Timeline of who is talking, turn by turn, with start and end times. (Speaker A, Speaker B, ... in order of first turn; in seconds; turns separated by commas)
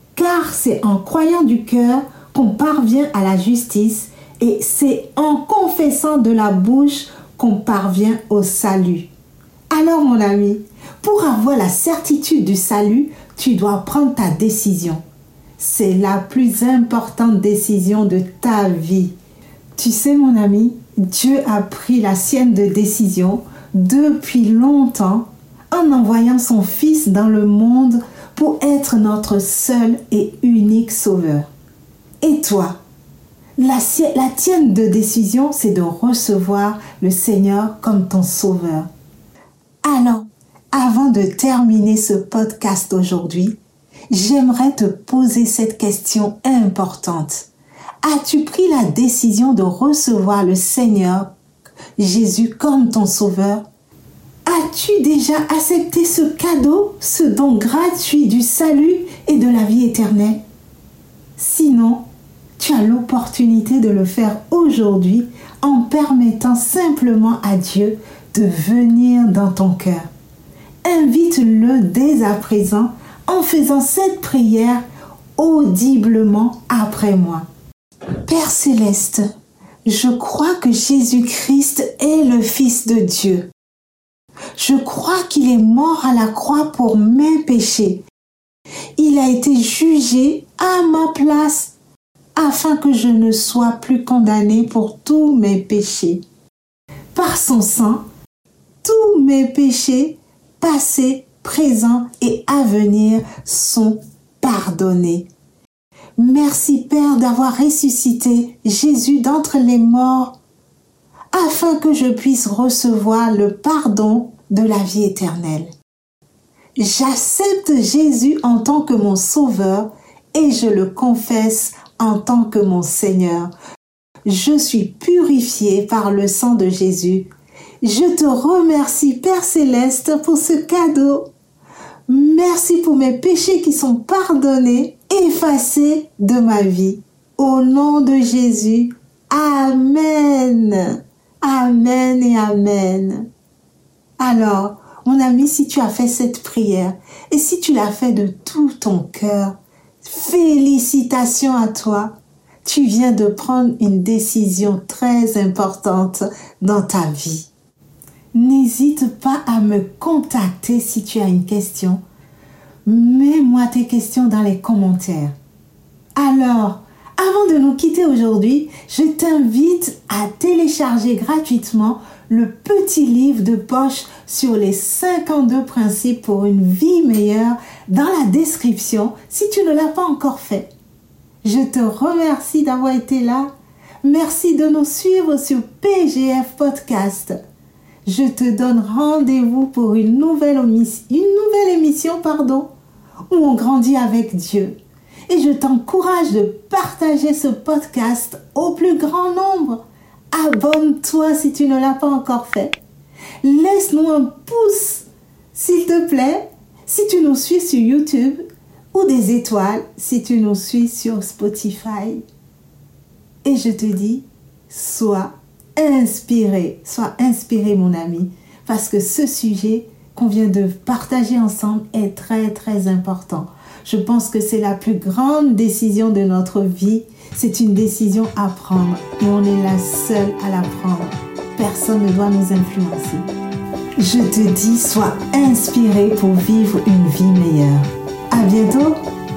Speaker A: 0.1-9.1, Speaker A: 9.7-15.0, Speaker A: 15.6-19.1, Speaker A: 19.8-31.5, Speaker A: 32.2-32.8, Speaker A: 33.6-38.9, Speaker A: 39.8-43.6, Speaker A: 44.1-47.5, Speaker A: 48.0-51.3, Speaker A: 52.0-53.6, Speaker A: 54.5-60.4, Speaker A: 61.4-62.0, Speaker A: 62.6-70.1, Speaker A: 70.8-74.8, Speaker A: 75.4-77.5, Speaker A: 78.2-79.2, Speaker A: 79.8-83.5, Speaker A: 84.6-88.0, Speaker A: 89.0-91.7, Speaker A: 92.4-96.2, Speaker A: 97.1-98.0, Speaker A: 98.8-105.3, Speaker A: 106.2-110.4, Speaker A: 111.3-115.7, Speaker A: 116.8-123.5, Speaker A: 124.3-127.3, Speaker A: 127.8-131.3, Speaker A: 132.1-143.3, Speaker A: 144.2-157.5, Speaker A: 158.3-162.0, Speaker A: 162.9-165.3, Speaker A: 166.2-180.7, Speaker A: 181.4-183.5, Speaker A: 184.0-187.4, Speaker A: 188.1-192.7, Speaker A: 193.3-194.8, Speaker A: 195.3-202.8, Speaker A: 203.4-212.2, Speaker A: 213.4-233.3, Speaker A: 234.0-239.0